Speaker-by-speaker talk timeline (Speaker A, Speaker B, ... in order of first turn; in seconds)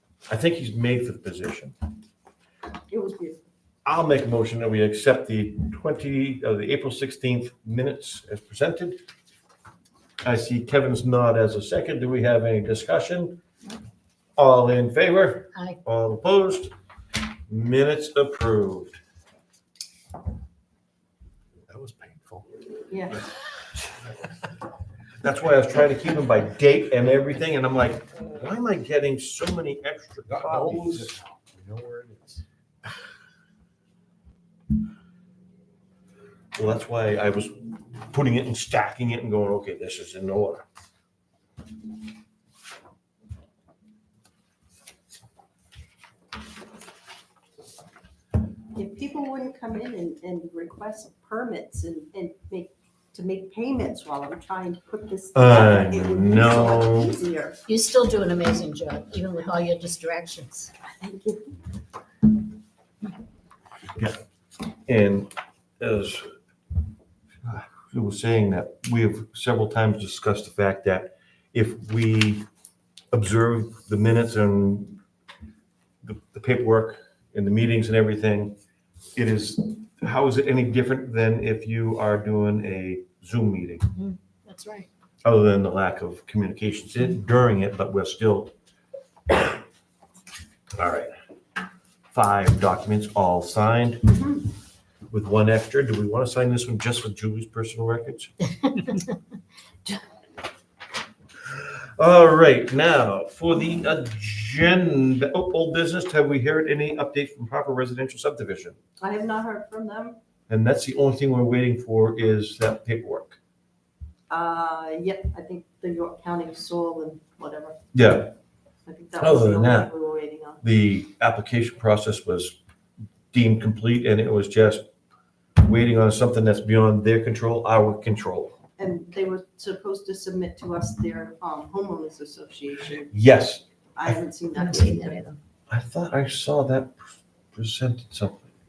Speaker A: 0.3-1.8, 3.9-9.0, 10.2-13.4, 14.4-16.7, 17.5-19.0, 25.2-31.1, 36.5-40.6, 55.3-57.1, 64.9-66.3, 67.4-72.5, 73.1-75.0, 76.0-78.6, 79.2-83.9, 85.2-88.5, 90.8-91.1, 92.1-94.2, 95.1-98.3, 101.5-108.8, 110.5-113.4, 117.9-118.3, 119.2-119.9, 120.6-122.6, 123.3-124.9, 125.6-128.6, 133.1-134.2, 135.7-137.0, 137.5-138.5
Speaker B: 2.9-3.4, 22.9-23.3, 48.8-57.6, 60.8-61.5, 94.1-94.4, 109.0-110.2, 114.3-117.8, 118.9-120.6, 128.8-133.1, 134.0-135.2
Speaker C: 21.7-22.5, 30.3-32.4
Speaker D: 57.7-60.7, 84.0-84.9, 98.7-99.2, 134.5-135.4